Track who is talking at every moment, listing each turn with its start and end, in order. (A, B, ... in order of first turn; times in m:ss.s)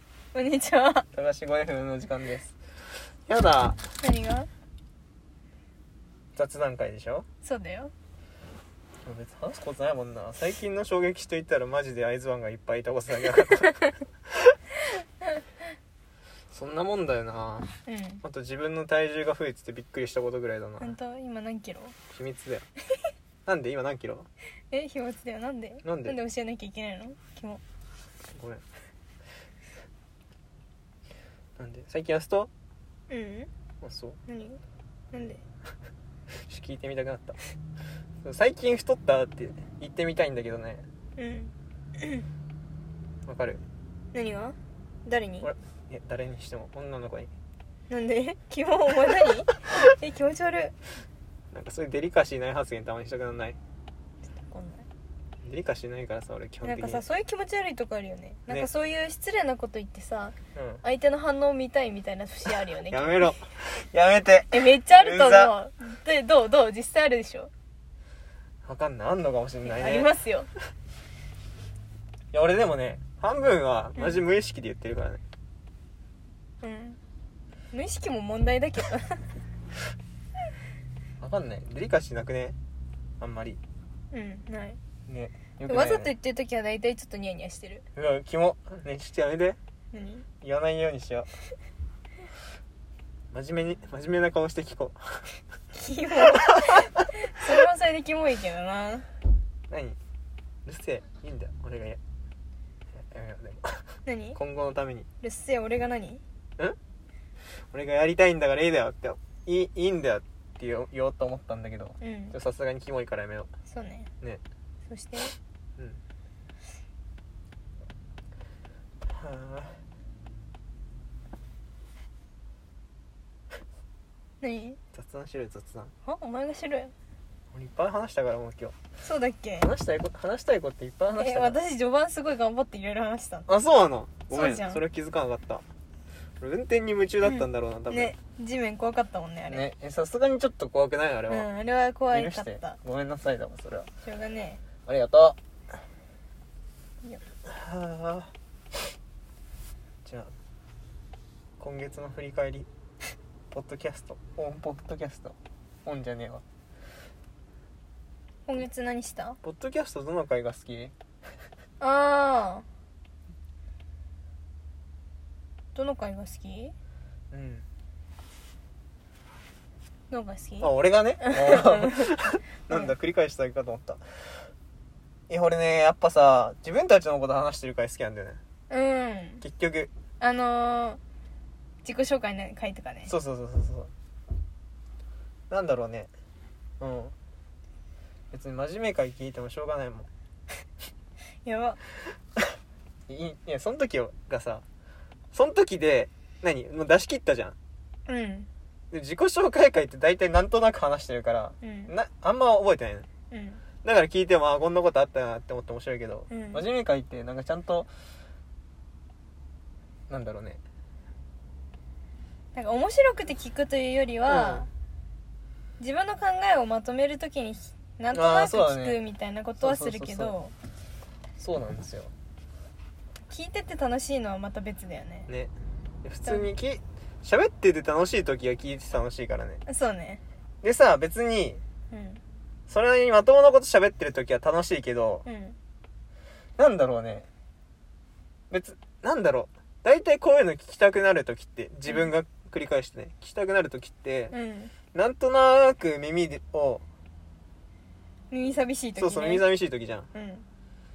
0:00.3-0:01.0 A
0:01.1-0:02.5 B
0:03.3-0:03.8 B
0:04.0-0:04.5 A
0:06.4-0:07.2 B
0:07.4-0:07.9 A
0:09.0-0:13.9 B
0:16.5-0:20.9 B
0:17.8-0:18.2 A
0:20.8-0:22.0 A
0:22.1-0:22.7 B
0:23.4-0:24.3 B
0:24.7-0:27.6 A
0:25.8-0:26.2 B
0:28.3-0:28.6 B
0:31.6-0:32.5 B
0:33.1-0:33.5 A
0:33.8-0:34.2 B
0:34.3-0:34.6 A
0:35.1-0:35.4 A
0:36.3-0:37.4 B
0:38.2-0:40.8 B
0:41.2-0:42.2 A
0:43.2-0:43.6 B
0:44.1-0:45.5 A
0:45.4-0:47.3 B
0:47.9-0:50.8 A
0:51.5-0:53.6 B
0:54.4-0:54.8 A
0:55.4-0:57.0 B
0:56.6-1:03.3 A
1:00.5-1:00.8 B
1:02.9-1:05.5 B
1:04.5-1:07.5 A
1:08.6-1:10.1 B
1:09.6-1:10.5 A
1:12.3-1:15.2 B
1:16.6-1:17.0 A
1:17.7-1:19.4 A
1:21.2-1:22.6 B
1:23.2-1:23.6 B
1:24.1-1:24.8 A
1:25.1-1:26.1 B
1:25.7-1:27.8 A
1:27.9-1:29.6 B
1:29.9-1:30.2 A
1:30.4-1:31.3 B
1:33.3-1:35.3 B
1:35.7-1:39.1 A
1:39.7-1:40.0 B
1:40.6-1:42.0 B
1:42.9-1:45.1 B
1:44.0-1:44.4 A
1:45.2-1:46.2 A
1:47.7-1:53.5 B
1:52.0-1:52.3 A
1:53.7-1:54.1 A
1:54.9-1:55.3 A
1:59.1-1:59.8 B
2:04.4-2:04.8 A
2:04.9-2:05.9 B
2:06.0-2:06.9 A
2:07.5-2:08.7 B
2:09.0-2:09.7 A
2:09.6-2:11.6 B
2:11.2-2:13.5 A
2:13.5-2:15.6 B
2:14.3-2:14.8 A
2:16.4-2:18.1 B
2:17.2-2:19.6 A
2:19.5-2:21.5 B
2:21.3-2:22.8 A
2:22.1-2:23.9 B
2:24.0-2:24.6 A
2:24.8-2:25.4 B
2:27.4-2:28.3 B
2:30.0-2:30.3 B
2:31.6-2:32.7 B
2:33.5-2:36.4 B
2:38.5-2:39.4 A
2:39.4-2:40.9 B
2:41.8-2:42.6 A
2:45.7-2:46.7 A
2:47.3-2:47.6 B
2:50.1-2:52.1 A
2:50.6-2:54.4 B
2:55.3-2:58.4 B
2:58.7-2:59.4 A
2:59.4-2:59.9 B
3:00.2-3:01.0 A
3:01.8-3:03.1 A
3:03.1-3:03.9 B
3:05.5-3:06.1 B
3:06.8-3:07.1 B
3:08.3-3:10.1 B
3:11.4-3:11.8 A
3:13.1-3:14.6 B
3:15.3-3:17.6 B
3:18.0-3:18.5 A
3:18.9-3:23.1 B
3:21.6-3:21.9 A
3:23.3-3:23.6 A
3:23.8-3:27.9 B
3:26.3-3:26.6 A
3:30.1-3:30.6 B
3:32.5-3:34.7 A
3:34.2-3:34.7 B
3:35.8-3:40.5 A
3:38.1-3:39.0 B
3:39.6-3:40.4 B
3:41.4-3:42.1 B
3:43.3-3:45.3 A
3:46.0-3:49.6 B
3:46.2-3:46.5 A
3:49.6-3:50.2 A
3:50.6-3:51.6 B
3:51.9-3:52.2 A
3:52.7-3:55.2 B
3:55.2-3:55.6 A
3:56.6-3:57.3 B
3:58.5-4:04.3 B
4:01.8-4:02.1 A
4:04.3-4:04.7 A
4:04.9-4:06.8 B
4:08.3-4:09.4 A
4:09.0-4:10.1 B
4:10.1-4:10.4 A